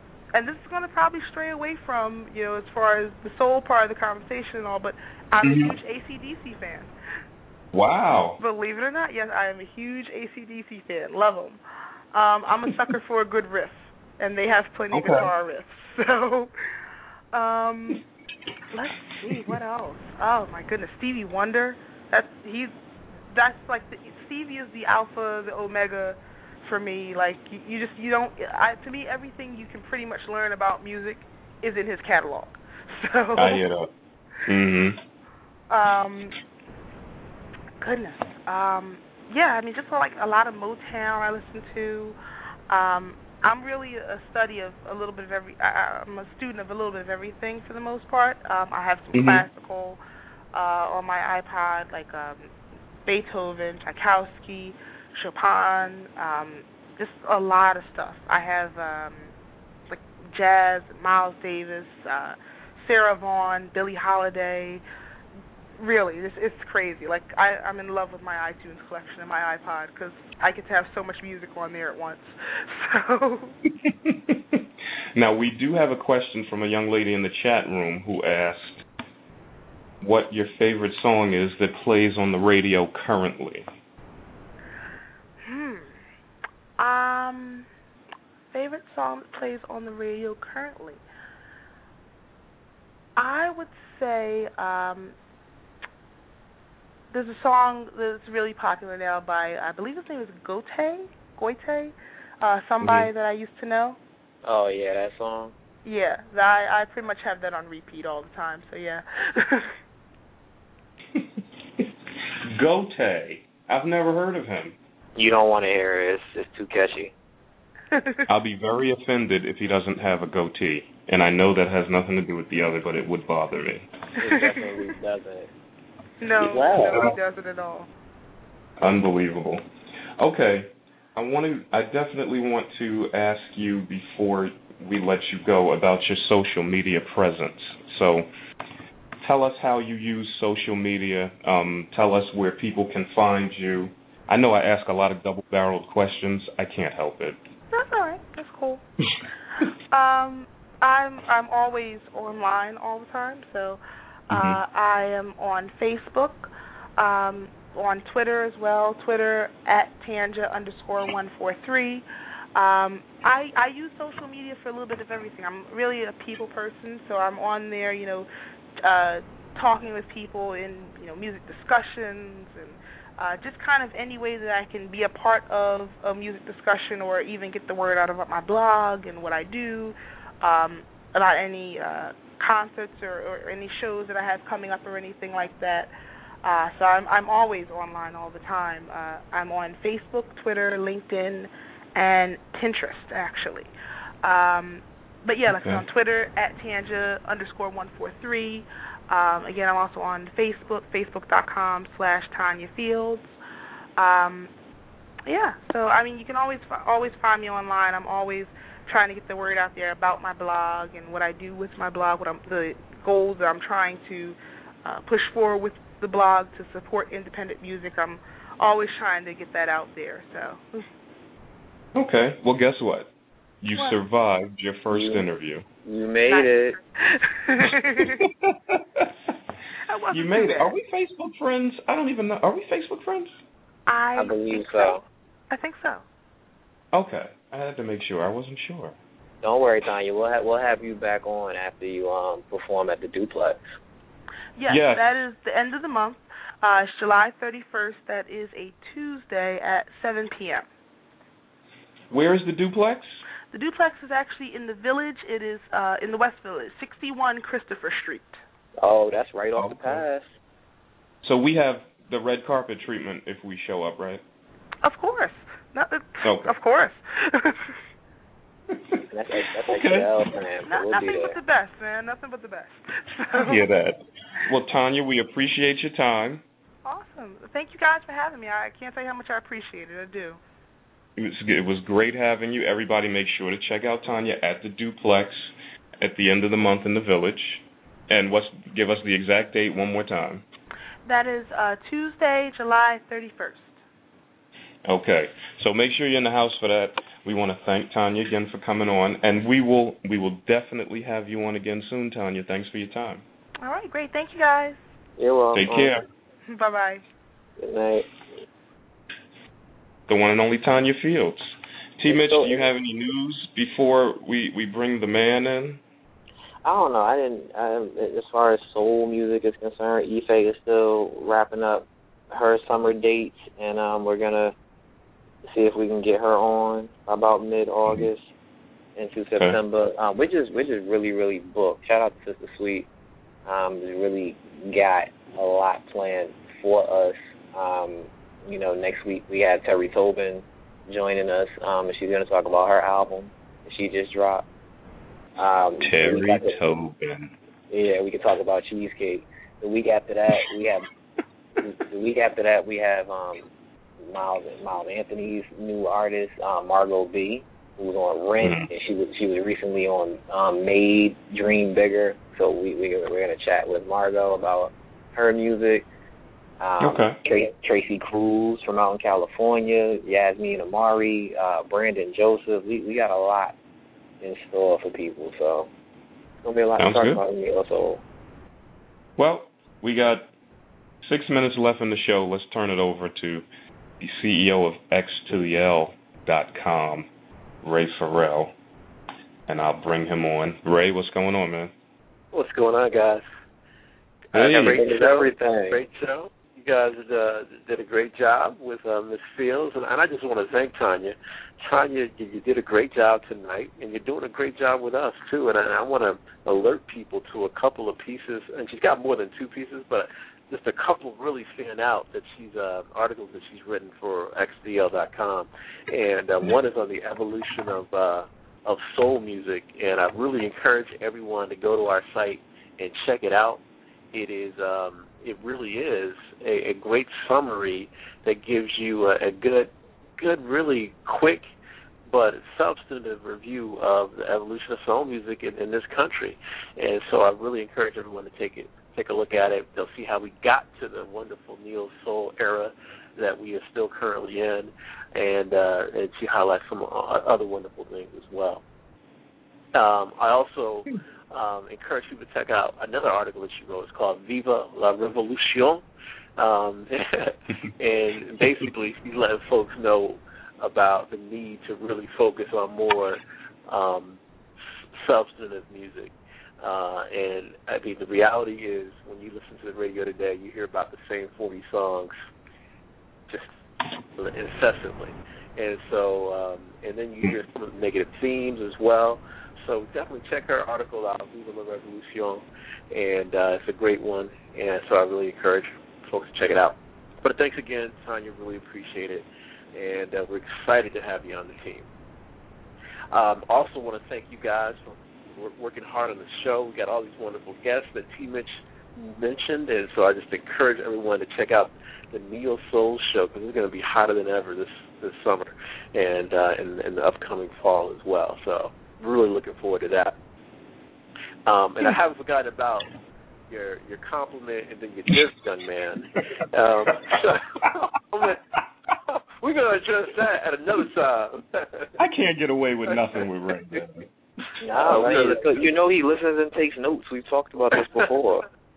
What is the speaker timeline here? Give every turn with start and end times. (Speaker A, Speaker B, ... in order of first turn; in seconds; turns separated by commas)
Speaker A: 0.3-6.9, Speaker B: 5.4-5.7, Speaker B: 7.7-8.4, Speaker A: 8.4-11.6, Speaker A: 12.1-16.5, Speaker B: 14.9-15.3, Speaker A: 17.3-18.0, Speaker A: 18.7-22.7, Speaker A: 23.3-33.6, Speaker B: 33.4-33.9, Speaker B: 34.5-35.0, Speaker A: 35.7-36.4, Speaker A: 37.8-42.1, Speaker A: 42.7-50.0, Speaker B: 49.1-49.4, Speaker A: 50.5-52.5, Speaker A: 53.0-59.3, Speaker A: 59.9-64.8, Speaker A: 65.8-73.5, Speaker B: 73.8-74.6, Speaker B: 75.1-78.8, Speaker B: 80.0-83.7, Speaker A: 85.4-86.0, Speaker A: 86.8-87.7, Speaker A: 88.5-91.0, Speaker A: 93.2-95.2, Speaker A: 97.1-104.0, Speaker B: 102.8-103.1, Speaker C: 104.4-105.5, Speaker A: 105.8-109.7, Speaker B: 112.5-114.8, Speaker C: 115.2-117.1, Speaker A: 117.9-118.3, Speaker B: 118.3-123.9, Speaker C: 124.2-125.5, Speaker A: 126.2-127.9, Speaker C: 126.4-127.1, Speaker B: 128.8-129.6, Speaker B: 130.2-138.3, Speaker B: 139.2-147.4, Speaker A: 147.7-148.8, Speaker A: 149.9-168.3, Speaker B: 154.3-154.6, Speaker A: 168.8-185.9, Speaker A: 186.4-193.7, Speaker A: 194.2-203.3, Speaker B: 195.5-195.8, Speaker A: 204.0-204.5, Speaker A: 205.2-220.9, Speaker B: 221.9-223.1, Speaker B: 223.6-225.6, Speaker C: 224.9-225.2, Speaker C: 225.8-226.8, Speaker A: 226.3-228.2, Speaker B: 228.5-229.1, Speaker A: 229.9-230.7, Speaker B: 230.1-233.3, Speaker A: 233.9-236.0, Speaker C: 234.2-235.0, Speaker B: 236.9-238.9, Speaker C: 239.4-243.6, Speaker A: 244.6-250.7, Speaker B: 244.7-245.0, Speaker B: 252.1-253.2, Speaker A: 253.5-258.4, Speaker C: 258.8-260.3, Speaker B: 259.6-260.0, Speaker B: 261.2-264.2, Speaker A: 264.8-267.8, Speaker B: 266.2-266.5, Speaker C: 269.1-271.4, Speaker B: 269.7-270.1, Speaker A: 270.6-273.6, Speaker B: 273.4-276.4, Speaker A: 276.8-280.4, Speaker B: 281.2-290.4, Speaker A: 291.1-293.8, Speaker B: 294.8-303.2, Speaker A: 303.6-304.8, Speaker C: 305.2-305.9, Speaker B: 305.5-306.0, Speaker A: 306.5-307.0, Speaker C: 307.6-308.1, Speaker B: 310.1-315.8, Speaker C: 312.1-312.7, Speaker C: 316.6-324.5, Speaker C: 325.5-328.3, Speaker C: 328.9-332.9, Speaker C: 333.4-344.4, Speaker C: 345.4-346.6, Speaker B: 345.8-347.3, Speaker C: 347.7-350.9, Speaker C: 351.6-365.9, Speaker B: 358.4-358.7, Speaker C: 366.6-373.6, Speaker B: 366.8-367.2, Speaker C: 374.2-375.7, Speaker C: 376.4-378.0, Speaker B: 376.8-377.2, Speaker B: 379.2-380.3, Speaker B: 381.0-383.4, Speaker B: 384.0-387.1, Speaker B: 387.6-388.5, Speaker B: 389.5-391.7, Speaker D: 392.3-393.2, Speaker D: 394.3-431.5, Speaker B: 394.3-394.9, Speaker C: 394.6-395.8, Speaker D: 432.1-448.6, Speaker D: 449.7-455.8, Speaker D: 456.4-464.2, Speaker D: 465.0-472.1, Speaker D: 474.2-491.9, Speaker D: 493.1-510.2, Speaker D: 511.4-512.9, Speaker D: 513.5-518.4, Speaker D: 519.1-521.9, Speaker B: 522.0-524.1, Speaker D: 522.9-523.8, Speaker C: 524.6-528.5, Speaker D: 524.7-525.6, Speaker B: 524.9-525.3